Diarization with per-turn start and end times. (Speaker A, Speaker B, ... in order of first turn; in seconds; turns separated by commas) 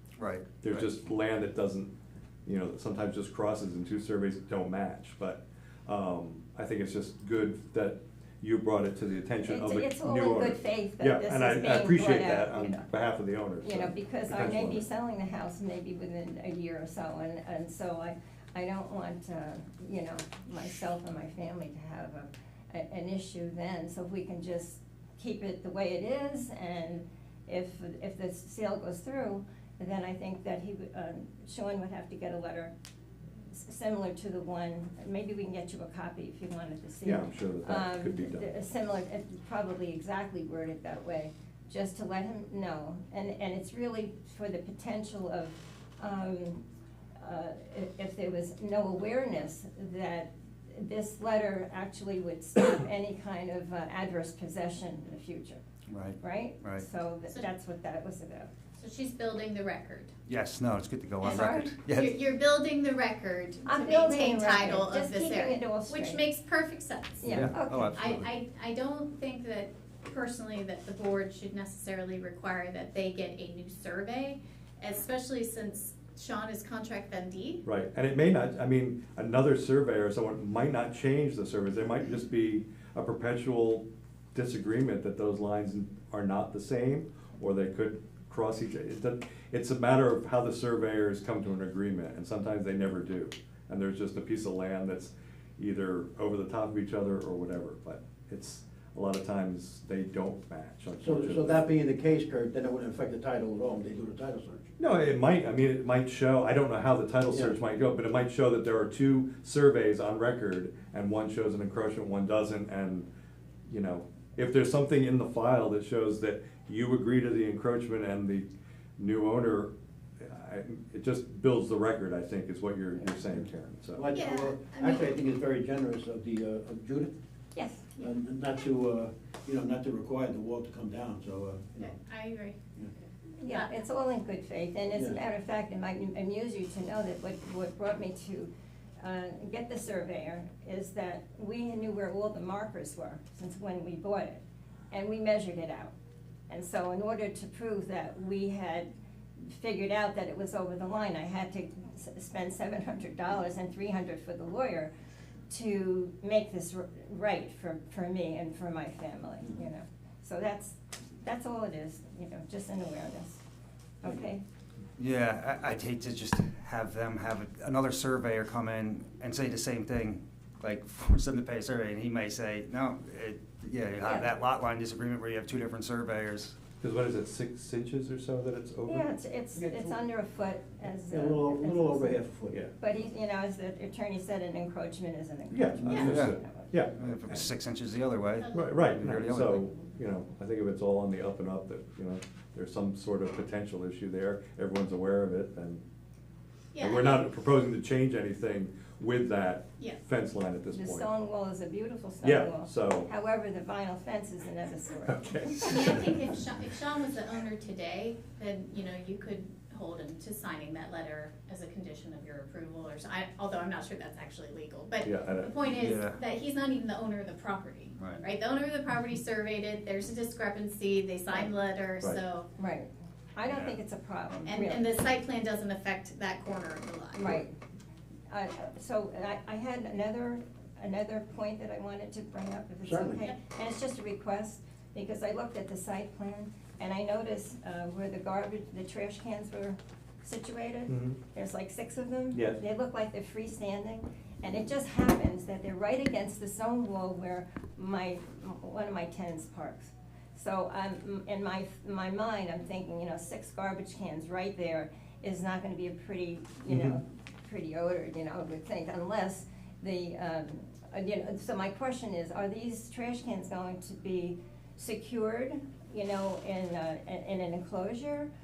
Speaker A: 0.2-0.9, Speaker B: 0.6-1.9, Speaker B: 2.5-14.9, Speaker C: 9.4-12.9, Speaker C: 13.6-32.7, Speaker C: 33.5-46.6, Speaker B: 37.0-38.5, Speaker C: 47.2-55.6, Speaker A: 55.9-56.9, Speaker C: 56.2-58.5, Speaker D: 58.8-60.1, Speaker A: 60.3-62.2, Speaker D: 61.2-67.3, Speaker C: 61.3-61.7, Speaker C: 63.6-66.2, Speaker C: 67.2-68.0, Speaker A: 67.3-68.3, Speaker D: 67.9-77.6, Speaker B: 77.6-101.6, Speaker E: 101.0-104.7, Speaker B: 104.8-113.1, Speaker E: 107.3-107.6, Speaker B: 113.7-118.5, Speaker B: 119.0-124.0, Speaker E: 124.0-127.1, Speaker D: 124.1-125.1, Speaker C: 127.5-127.9, Speaker E: 128.0-131.9, Speaker D: 131.8-132.6, Speaker C: 133.4-145.9, Speaker D: 133.5-133.7, Speaker E: 134.9-135.2, Speaker C: 146.5-154.9, Speaker C: 155.5-163.4, Speaker C: 164.0-164.4, Speaker A: 165.0-176.6, Speaker C: 174.1-174.3, Speaker B: 176.8-179.1, Speaker C: 178.9-182.2, Speaker E: 179.6-180.0, Speaker E: 181.1-182.6, Speaker C: 182.8-186.7, Speaker B: 185.5-187.5, Speaker D: 185.9-186.2, Speaker A: 186.0-186.3, Speaker A: 186.9-189.7, Speaker D: 188.4-188.8, Speaker B: 188.5-195.8, Speaker D: 196.7-197.3, Speaker B: 196.8-201.1, Speaker C: 200.7-205.9, Speaker B: 202.2-203.1, Speaker B: 205.1-206.1, Speaker D: 205.7-222.5, Speaker B: 215.0-215.5, Speaker A: 215.7-216.2, Speaker A: 218.0-218.2, Speaker C: 222.6-224.9, Speaker A: 223.4-223.8, Speaker D: 224.5-227.4, Speaker C: 227.1-227.6, Speaker C: 228.3-268.3, Speaker E: 232.8-233.3, Speaker B: 240.9-241.2, Speaker B: 242.3-242.6, Speaker B: 256.7-257.0